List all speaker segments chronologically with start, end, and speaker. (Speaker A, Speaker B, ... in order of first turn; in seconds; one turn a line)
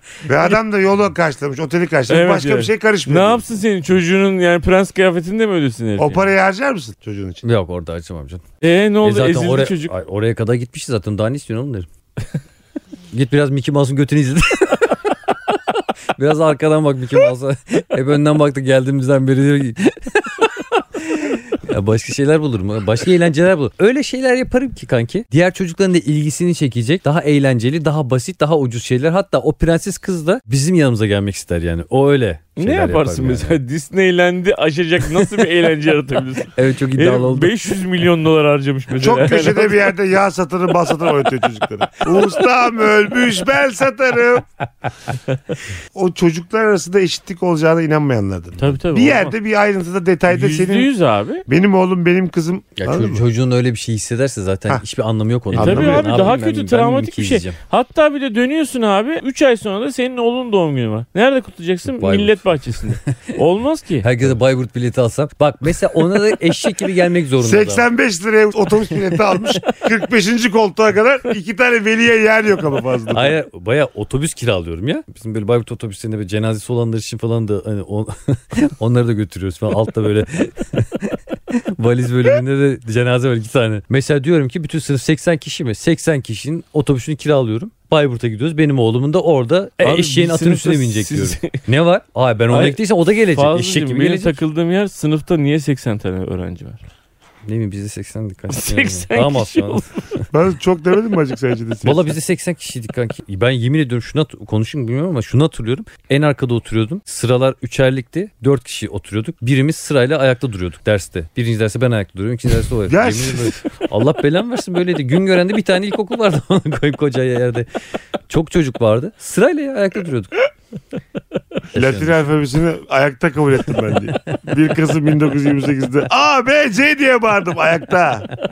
Speaker A: 0.3-3.4
Speaker B: 2.1-6.3
Speaker A: 6.0-7.4
Speaker C: 7.4-8.4
Speaker B: 8.6-9.9
Speaker C: 9.0-11.9
Speaker C: 13.1-15.2
Speaker C: 16.1-33.6
Speaker B: 32.6-39.9
Speaker C: 36.5-37.5
Speaker A: 39.0-44.5
Speaker A: 45.9-50.9
Speaker B: 48.6-49.3
Speaker B: 50.3-51.5
Speaker A: 51.5-53.2
Speaker C: 52.8-57.6
Speaker A: 55.5-56.3
Speaker B: 55.5-64.1
Speaker C: 61.9-63.1
Speaker C: 64.0-67.9
Speaker A: 67.4-73.4
Speaker C: 73.1-94.4
Speaker B: 89.8-91.6
Speaker B: 92.5-96.9
Speaker C: 97.5-100.3
Speaker B: 98.5-99.8
Speaker A: 100.3-102.1
Speaker C: 101.8-117.7
Speaker A: 112.9-113.5
Speaker C: 118.3-120.3
Speaker A: 121.7-128.3
Speaker C: 121.7-122.2